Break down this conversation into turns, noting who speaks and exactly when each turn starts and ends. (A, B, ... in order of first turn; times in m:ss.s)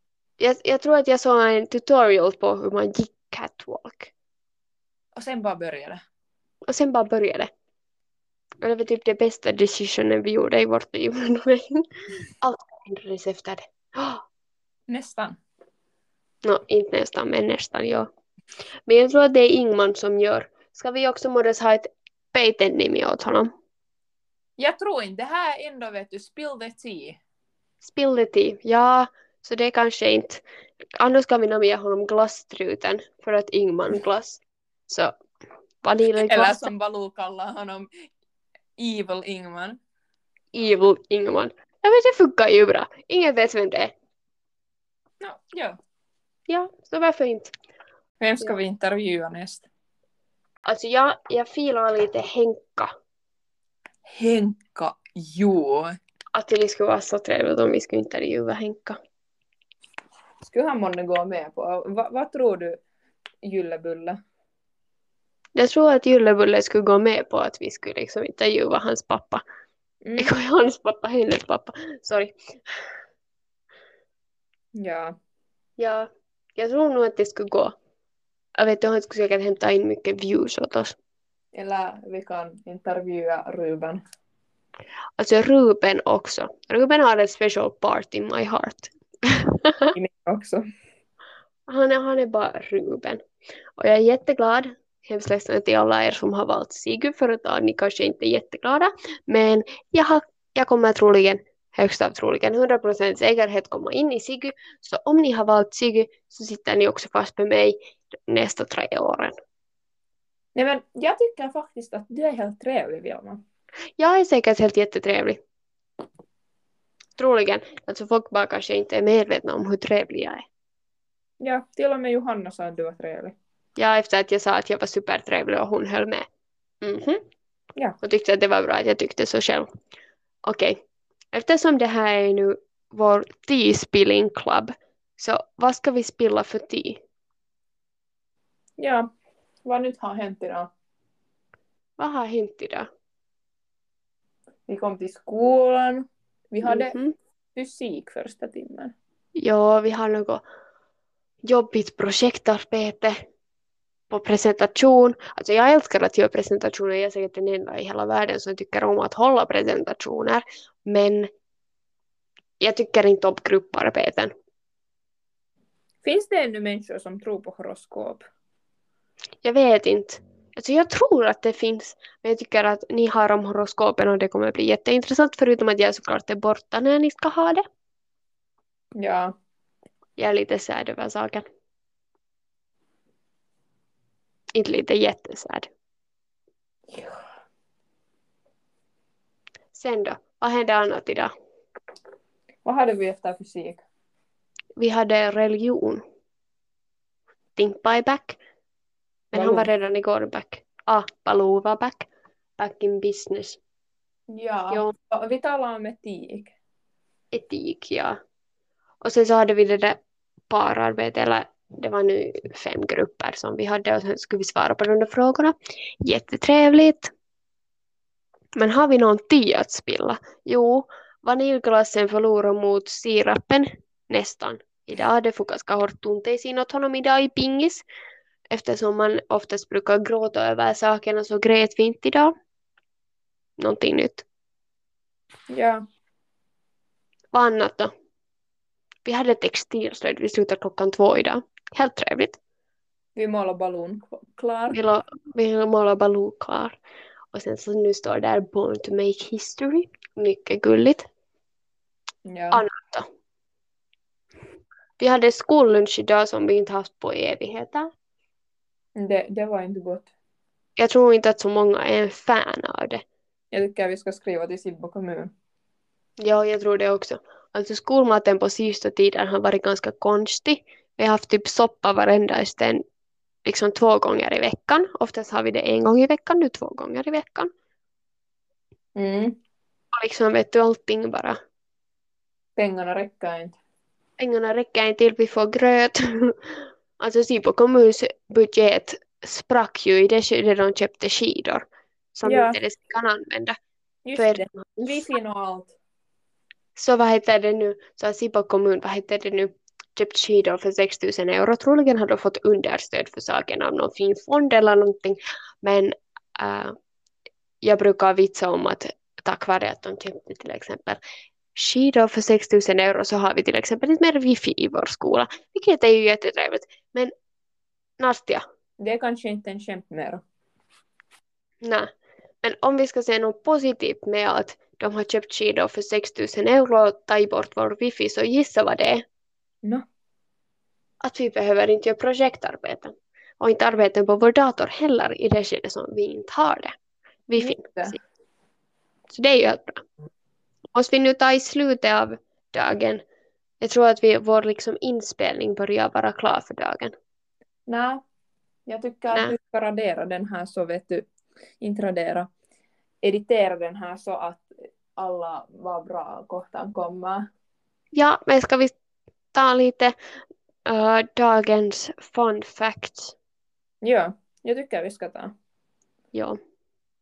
0:00.4-0:04.1 A
0:05.1-0:06.0 B
0:06.7-0:07.5 A
0:08.6-0:11.8 A
0:12.4-0:14.2 A
0:14.9-0:15.4 B
0:16.4-0:18.1 A
0:18.9-0:23.5 A
0:24.6-0:27.2 B
0:27.8-0:30.4 A
0:31.0-0:35.1 A
0:35.8-0:36.7 A
0:36.2-0:37.9 B
0:38.8-0:39.8 B
0:40.5-0:43.9 A
0:45.2-0:45.8 B
0:46.5-0:47.5 A
0:48.2-0:49.6 B
0:50.6-0:52.9 A
0:54.1-0:56.0 B
0:56.3-0:59.0 A
1:00.4-1:02.8 B
1:03.4-1:04.2 B
1:05.6-1:09.4 A
1:10.0-1:10.3 B
1:10.2-1:12.3 A
1:14.8-1:15.1 B
1:15.8-1:17.7 A
1:18.6-1:20.9 A
1:21.5-1:24.0 B
1:25.2-1:29.9 A
1:29.9-1:30.6 B
1:31.7-1:33.2 A
1:33.8-1:49.4 A
1:50.5-1:53.4 B
1:54.0-1:55.4 A
1:57.2-2:00.4 A
2:01.4-2:03.3 B
2:03.8-2:06.2 A
2:06.8-2:07.2 A
2:08.0-2:09.7 A
2:10.4-2:10.8 A
2:11.3-2:17.0 A
2:18.8-2:19.1 B
2:19.6-2:20.7 B
2:22.0-2:22.9 A
2:24.7-2:26.9 B
2:26.6-2:27.1 A
2:27.5-2:28.9 B
2:29.4-2:30.4 A
2:31.4-2:33.2 A
2:34.1-2:41.3 A
2:42.6-2:44.3 A
2:46.0-2:48.2 B
2:49.4-2:57.6 A
2:59.0-2:59.3 B
3:00.2-3:01.4 A
3:04.5-3:05.7 A
3:06.9-3:07.2 B
3:09.7-3:11.3 A
3:12.6-3:13.8 B
3:14.8-3:16.0 A
3:17.6-3:18.4 A
3:19.3-3:22.1 A
3:19.3-3:19.7 B
3:22.6-3:23.6 A
3:24.3-3:26.5 B
3:27.3-3:28.2 A
3:29.0-3:37.1 A
3:38.6-3:47.8 A
3:48.5-3:52.3 A
3:53.6-3:54.2 A
3:55.5-3:55.8 B
3:57.3-3:57.9 A
3:59.0-4:02.4 A
4:03.2-4:04.8 B
4:04.7-4:06.8 A
4:07.3-4:11.1 A
4:12.2-4:12.6 B
4:12.5-4:13.1 A
4:15.0-4:17.9 A
4:19.0-4:20.1 B
4:20.8-4:23.0 A
4:23.5-4:25.3 B
4:26.2-4:32.8 A
4:33.4-4:37.5 A
4:38.9-4:39.4 B
4:39.9-4:41.4 A
4:42.6-4:43.6 B
4:44.2-4:53.6 A
4:52.2-4:52.6 B
4:54.0-4:55.7 B
4:54.2-4:55.0 A
4:56.8-5:06.7 A
5:07.6-5:11.0 A
5:11.5-5:17.1 A
5:18.0-5:18.4 A
5:18.8-5:20.2 B
5:21.6-5:21.9 A
5:22.4-5:29.0 A
5:31.0-5:36.7 A
5:37.3-5:38.0 A
5:37.4-5:38.0 B
5:39.1-5:39.8 A
5:40.7-5:43.0 A
5:43.6-5:46.9 A
5:47.7-5:48.0 B
5:48.7-5:51.0 B
5:51.6-5:52.3 B
5:53.0-5:57.2 B
5:57.9-5:58.7 A
5:59.3-5:59.9 A
6:00.6-6:03.1 A
6:03.8-6:05.3 B